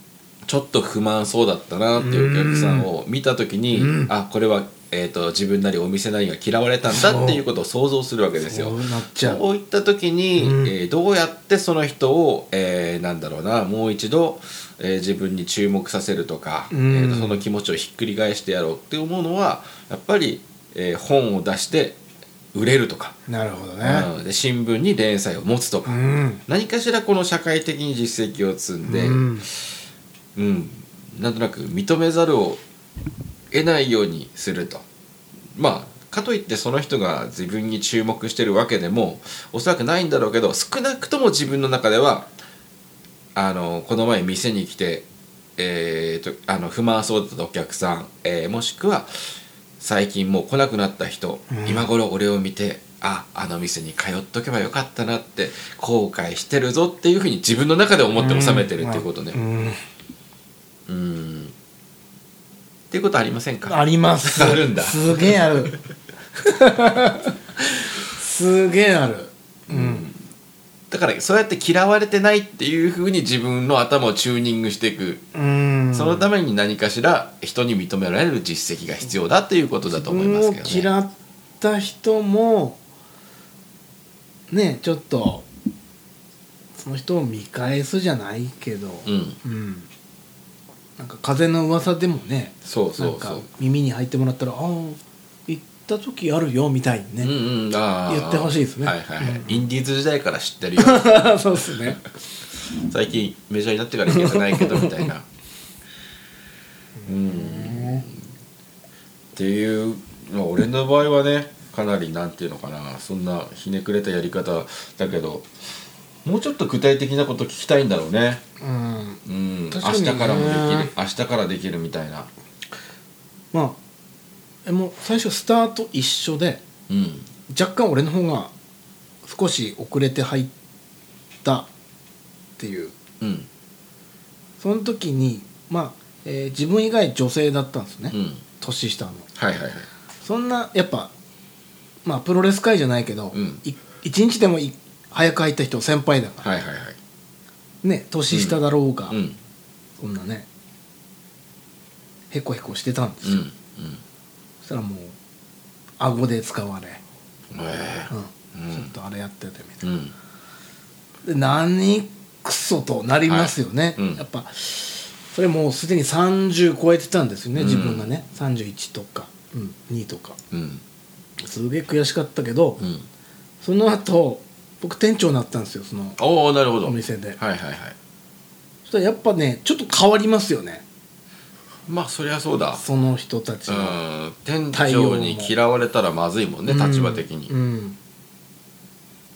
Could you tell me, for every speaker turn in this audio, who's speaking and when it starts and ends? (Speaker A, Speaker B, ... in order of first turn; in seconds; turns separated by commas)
Speaker A: 0.5-22.0, Speaker B: 2.0-2.9, Speaker B: 3.7-4.1, Speaker B: 6.9-7.4, Speaker B: 8.4-9.4, Speaker B: 10.4-10.7, Speaker B: 16.7-17.4, Speaker A: 22.5-23.2, Speaker B: 23.3-24.1, Speaker A: 23.8-29.6, Speaker B: 25.9-26.4, Speaker B: 28.9-29.5, Speaker A: 30.4-32.6, Speaker A: 33.5-34.9, Speaker A: 35.6-42.3, Speaker A: 43.4-45.1, Speaker A: 45.6-49.1, Speaker A: 49.8-59.4, Speaker B: 51.5-51.9, Speaker B: 58.2-59.8, Speaker A: 60.9-61.5, Speaker A: 62.9-65.3, Speaker B: 63.7-65.7, Speaker B: 66.4-70.0, Speaker A: 69.7-70.2, Speaker A: 70.9-75.3, Speaker B: 75.3-76.3, Speaker A: 75.9-80.9, Speaker B: 79.9-82.8, Speaker B: 84.5-85.5, Speaker B: 86.8-89.9, Speaker A: 89.1-89.4, Speaker B: 91.0-97.3, Speaker A: 92.7-93.5, Speaker A: 97.2-101.9, Speaker B: 98.1-99.7, Speaker B: 100.8-102.0, Speaker A: 102.8-105.3, Speaker B: 104.1-105.1, Speaker B: 107.0-108.0, Speaker A: 107.0-108.2, Speaker A: 109.3-115.5, Speaker A: 116.2-118.4, Speaker B: 118.6-119.2, Speaker A: 119.2-122.3, Speaker B: 119.7-120.9, Speaker B: 123.5-123.8, Speaker B: 124.7-126.6, Speaker A: 126.9-127.3, Speaker B: 127.5-128.5, Speaker B: 129.2-130.5, Speaker B: 131.4-131.7, Speaker B: 132.6-132.9, Speaker A: 133.2-133.5, Speaker B: 134.6-139.3, Speaker A: 138.1-138.4, Speaker A: 139.4-139.9, Speaker B: 140.2-141.1, Speaker B: 142.0-146.5, Speaker A: 143.3-143.6, Speaker A: 146.4-147.0, Speaker B: 147.8-149.2, Speaker A: 148.3-149.4, Speaker B: 150.0-150.5, Speaker B: 152.3-153.4, Speaker A: 153.2-154.0, Speaker B: 154.6-155.2, Speaker B: 156.0-157.0, Speaker A: 157.5-158.9, Speaker B: 158.1-159.8, Speaker A: 159.8-160.1, Speaker B: 161.2-170.4, Speaker A: 163.3-164.2, Speaker A: 167.6-168.2, Speaker A: 170.5-170.8, Speaker B: 171.4-172.8, Speaker A: 172.8-173.1, Speaker B: 173.6-176.2, Speaker A: 176.2-177.9, Speaker B: 176.8-177.4, Speaker B: 178.8-180.8, Speaker A: 181.9-182.8, Speaker B: 182.8-184.0, Speaker A: 183.7-187.5, Speaker B: 184.7-185.5, Speaker B: 186.7-188.0